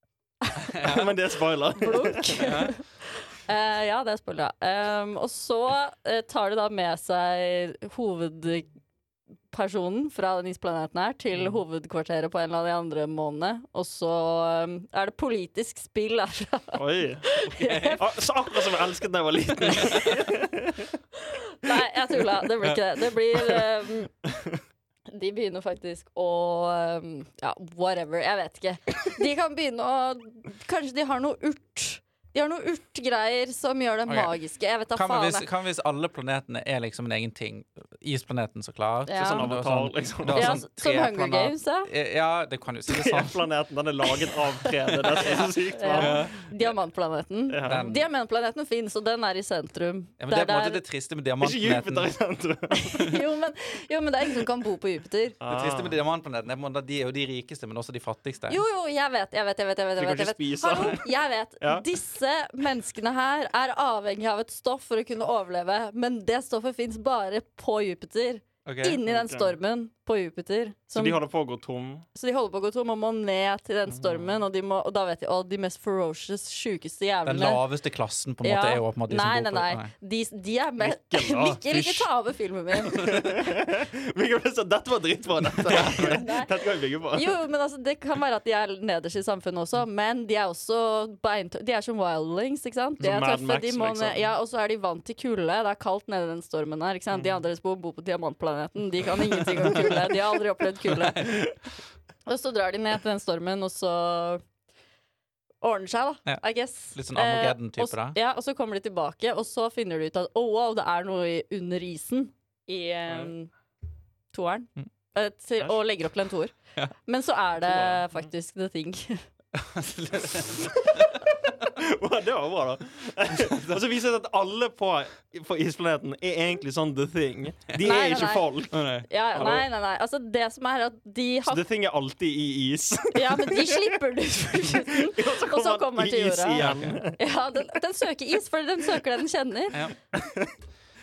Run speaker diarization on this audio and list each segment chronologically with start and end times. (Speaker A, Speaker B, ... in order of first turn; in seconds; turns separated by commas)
Speaker A: 0.4-1.0, Speaker B: 0.7-1.0, Speaker C: 0.8-2.4, Speaker A: 1.8-8.7, Speaker B: 2.4-2.7, Speaker A: 9.5-18.0, Speaker C: 16.7-17.3, Speaker B: 17.4-18.0, Speaker C: 18.0-20.9, Speaker B: 19.7-20.2, Speaker A: 21.2-24.1, Speaker A: 25.1-35.5, Speaker B: 34.1-34.3, Speaker B: 34.9-43.5, Speaker A: 39.0-39.5, Speaker C: 39.2-40.6, Speaker A: 40.3-41.9, Speaker C: 42.9-46.5, Speaker B: 45.1-46.4, Speaker A: 45.7-50.8, Speaker C: 47.5-47.9, Speaker B: 47.6-48.0, Speaker B: 50.2-52.1, Speaker C: 51.4-53.2, Speaker A: 52.7-55.4, Speaker C: 55.4-56.0, Speaker B: 55.5-58.6, Speaker A: 58.5-71.2, Speaker C: 60.0-61.1, Speaker C: 61.6-61.9, Speaker B: 68.6-69.0, Speaker C: 69.1-69.6, Speaker C: 70.9-72.0, Speaker A: 72.1-77.6, Speaker C: 73.9-74.3, Speaker B: 77.2-79.9, Speaker A: 78.4-83.1, Speaker C: 80.8-82.1, Speaker C: 82.8-87.3, Speaker A: 85.7-86.5, Speaker A: 87.1-101.4, Speaker C: 93.0-94.2, Speaker B: 99.6-100.0, Speaker B: 100.8-101.6, Speaker A: 102.2-104.4, Speaker A: 105.6-113.5, Speaker B: 106.9-108.2, Speaker A: 114.3-119.2, Speaker C: 117.6-118.2, Speaker B: 119.5-121.0, Speaker C: 121.6-129.7, Speaker B: 123.5-123.8, Speaker A: 127.8-131.6, Speaker B: 128.7-129.5, Speaker C: 131.5-133.9, Speaker A: 133.1-139.8, Speaker C: 134.7-137.2, Speaker B: 136.6-137.0, Speaker C: 140.1-140.5